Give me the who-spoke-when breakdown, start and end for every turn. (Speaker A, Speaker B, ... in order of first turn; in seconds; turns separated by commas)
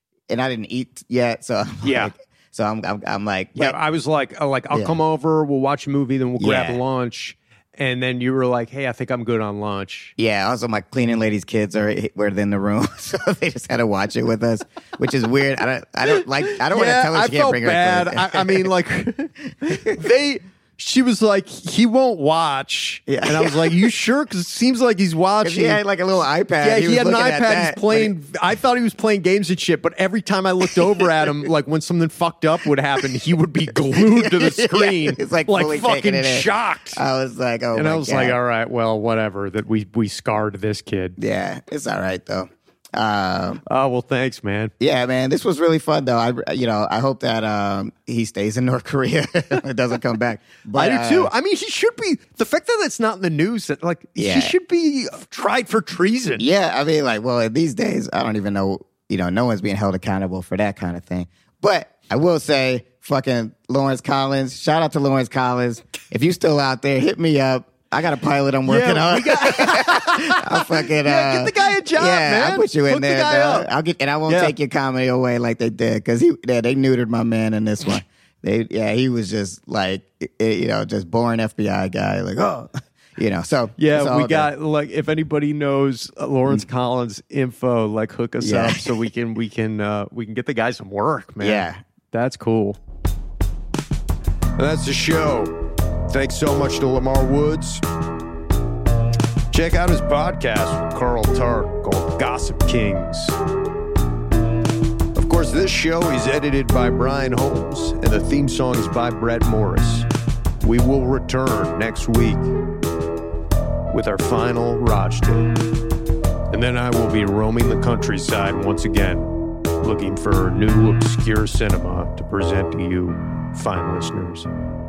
Speaker A: 0.3-3.8, Speaker B: 1.8-2.1, Speaker B: 3.5-10.1, Speaker A: 4.7-5.0, Speaker A: 6.4-6.8, Speaker A: 10.2-18.7, Speaker B: 16.1-25.8, Speaker A: 19.6-20.0, Speaker A: 23.1-23.8, Speaker A: 25.4-28.1, Speaker B: 26.6-37.0, Speaker A: 30.7-31.1, Speaker A: 33.9-38.4, Speaker B: 37.7-41.2, Speaker A: 41.2-43.6, Speaker B: 43.6-44.7, Speaker A: 44.8-51.3, Speaker B: 50.7-56.4, Speaker A: 54.1-54.5, Speaker A: 56.4-84.5, Speaker B: 68.7-73.7, Speaker B: 74.3-74.5, Speaker B: 83.8-92.8, Speaker A: 88.4-88.9, Speaker A: 91.4-91.8, Speaker B: 94.5-95.5, Speaker B: 96.1-97.8, Speaker B: 99.5-103.4, Speaker B: 105.1-110.1, Speaker B: 110.6-112.5, Speaker B: 113.9-115.5, Speaker B: 116.5-119.3, Speaker B: 119.8-124.5